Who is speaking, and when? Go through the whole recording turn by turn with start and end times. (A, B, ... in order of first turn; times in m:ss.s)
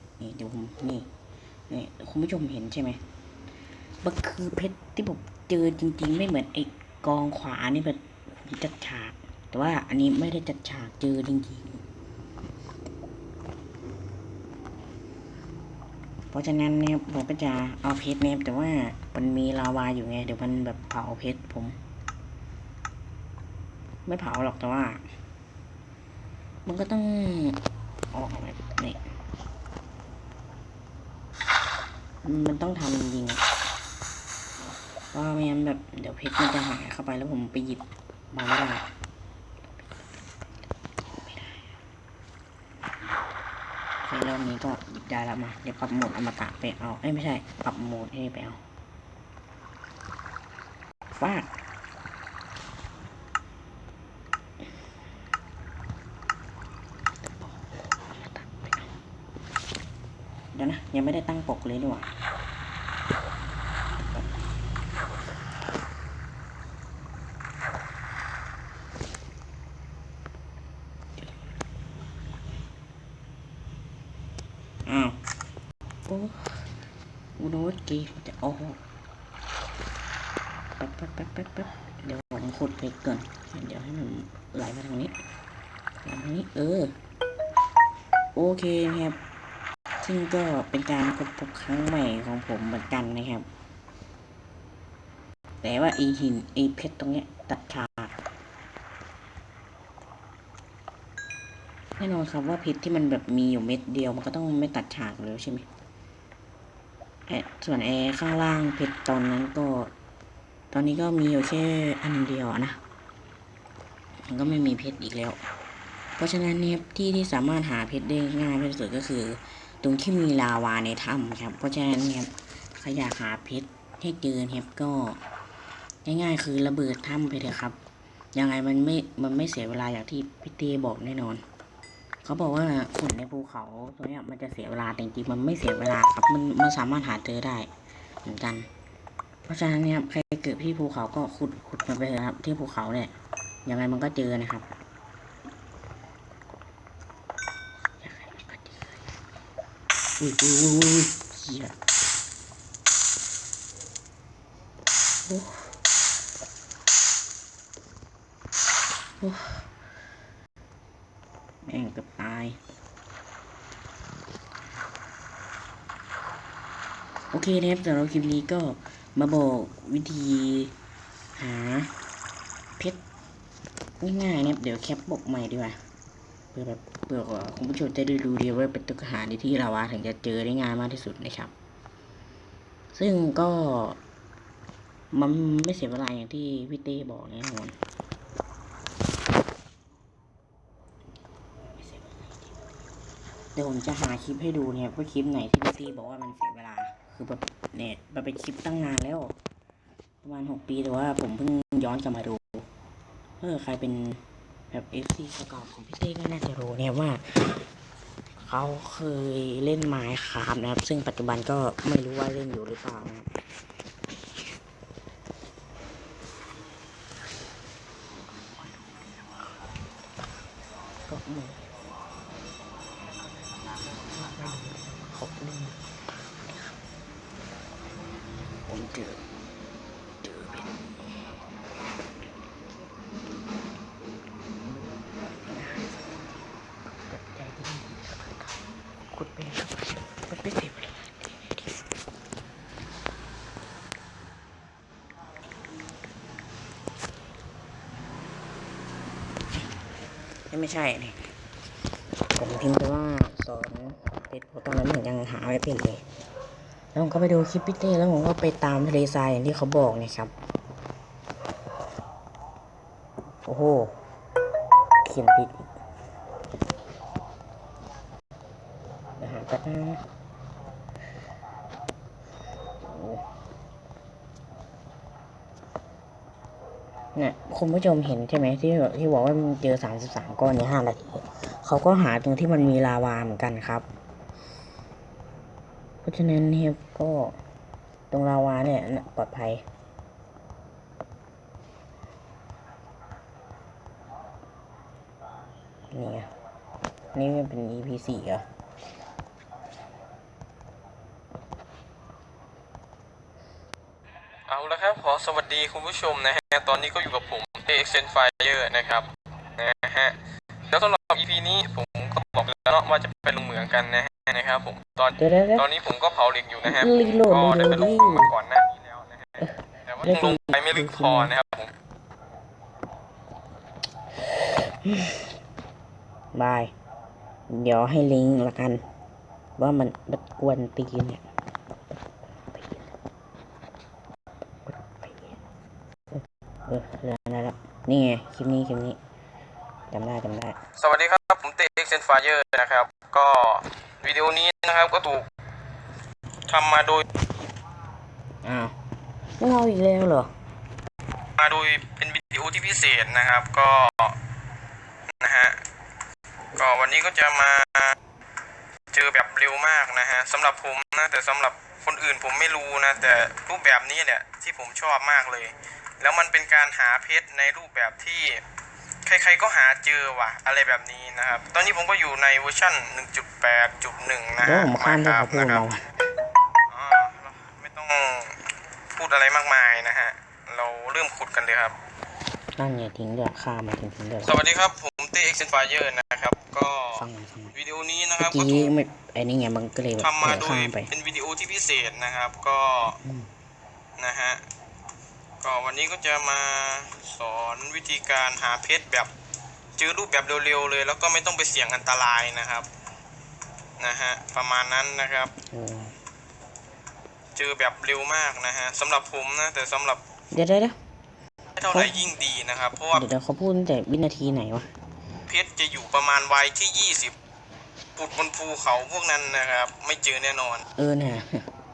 0:00.2-0:01.1 A
0:01.7-0:03.0 A
0:04.0-0:11.8 A
0:16.3-0:21.8 A
0:24.0-0:25.0 A
0:26.6-0:27.6 A
0:28.1-0:29.0 A
0:32.2-0:33.4 A
0:35.1-0:38.9 A
0:41.1-0:41.7 A
0:44.0-0:48.6 A
0:51.1-0:51.5 A
0:57.2-0:58.9 A
1:00.5-1:02.1 A
1:14.8-1:15.2 A
1:16.1-1:16.6 A
1:17.4-1:18.8 A
1:20.8-1:25.2 A
1:26.0-1:26.9 A
1:28.3-1:29.2 A
1:30.0-1:33.5 A
1:35.6-1:38.2 A
1:42.0-1:45.7 A
1:47.3-1:49.9 A
1:50.7-1:52.8 A
1:54.3-1:55.4 A
1:56.2-2:05.2 A
2:06.0-2:07.8 A
2:08.3-2:11.4 A
2:12.2-2:17.7 A
2:18.2-2:18.7 A
2:19.4-2:23.1 A
2:23.6-2:24.7 A
2:28.0-2:29.0 A
2:30.2-2:31.8 A
2:35.3-2:35.8 A
2:39.2-2:39.7 A
2:41.6-2:42.6 A
2:47.3-2:50.7 A
2:51.4-2:51.9 A
2:54.0-2:55.8 A
2:56.5-3:01.5 A
3:02.9-3:04.0 A
3:05.1-3:07.8 A
3:11.6-3:12.6 A
3:13.5-3:19.4 A
3:20.2-3:22.7 A
3:23.4-3:27.6 A
3:28.4-3:33.3 A
3:41.1-3:41.6 A
3:44.1-3:45.8 A
3:48.7-3:49.2 A
3:50.2-3:50.8 A
3:54.6-3:56.1 A
3:57.1-3:58.5 A
3:59.1-4:01.6 A
4:10.5-4:11.3 A
4:12.3-4:16.0 A
4:16.9-4:20.3 A
4:23.4-4:24.0 A
4:25.0-4:25.7 A
4:29.2-4:30.0 A
4:32.8-4:33.2 A
4:37.1-4:43.9 A
4:46.0-4:47.4 A
4:48.1-4:49.6 A
4:55.9-4:56.3 A
4:57.1-4:58.4 A
5:04.5-5:10.2 B
5:10.7-5:21.7 B
5:15.1-5:15.7 A
5:16.6-5:18.3 A
5:19.4-5:21.3 A
5:24.8-5:25.3 A
5:26.3-5:26.7 A
5:27.5-5:28.8 A
5:29.6-5:31.2 A
5:32.5-5:32.9 A
5:34.6-5:35.4 A
5:36.1-5:39.0 A
5:39.9-5:40.6 A
5:40.8-5:45.3 B
5:46.5-5:47.0 B
5:48.4-5:48.7 A
5:49.4-5:50.3 A
5:51.4-5:54.2 B
5:55.2-5:55.6 B
5:56.5-5:58.0 B
5:58.9-6:08.4 B
6:09.0-6:15.6 B
6:14.4-6:15.8 A
6:16.7-6:21.7 B
6:22.6-6:24.4 A
6:24.2-6:28.7 B
6:26.9-6:27.5 A
6:28.2-6:30.9 A
6:30.0-6:33.0 B
6:33.0-6:33.3 A
6:34.0-6:34.4 B
6:35.4-6:39.1 B
6:39.8-6:42.7 B
6:43.8-6:45.3 B
6:45.4-6:45.9 A
6:47.4-6:50.0 B
6:50.3-6:50.8 A
6:51.6-6:53.0 B
6:52.9-6:54.7 A
6:55.3-6:57.1 B
6:58.0-7:00.6 B
7:00.8-7:01.5 A